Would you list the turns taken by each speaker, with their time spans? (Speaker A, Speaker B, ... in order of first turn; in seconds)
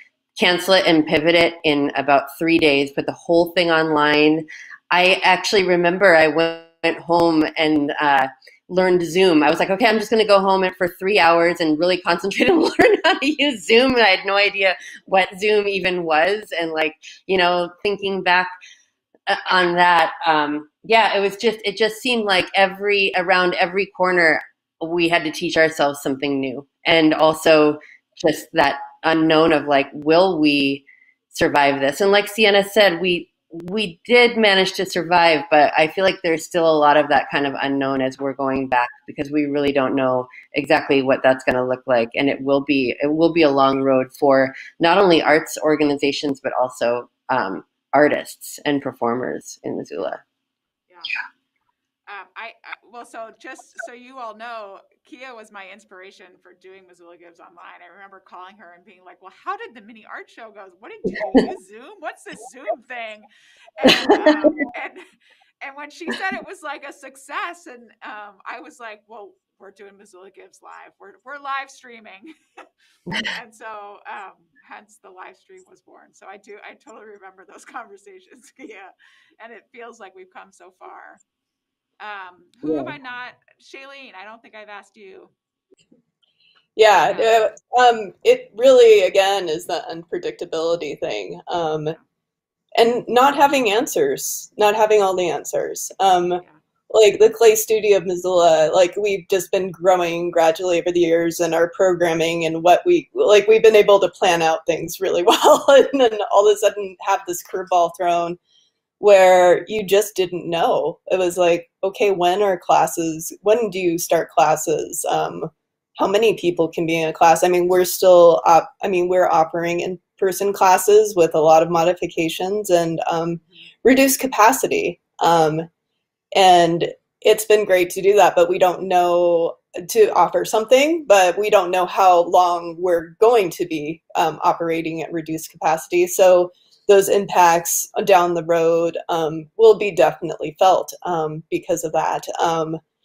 Speaker A: 0.4-18.5, 19.3-50.2, 63.8-64.5, 82.6-82.9
Speaker B: 50.9-51.1, 52.1-65.0, 65.6-72.3, 73.2-81.2, 82.0-85.3, 87.1-87.5
Speaker C: 86.8-92.0, 92.8-108.4, 109.0-125.7, 126.3-142.8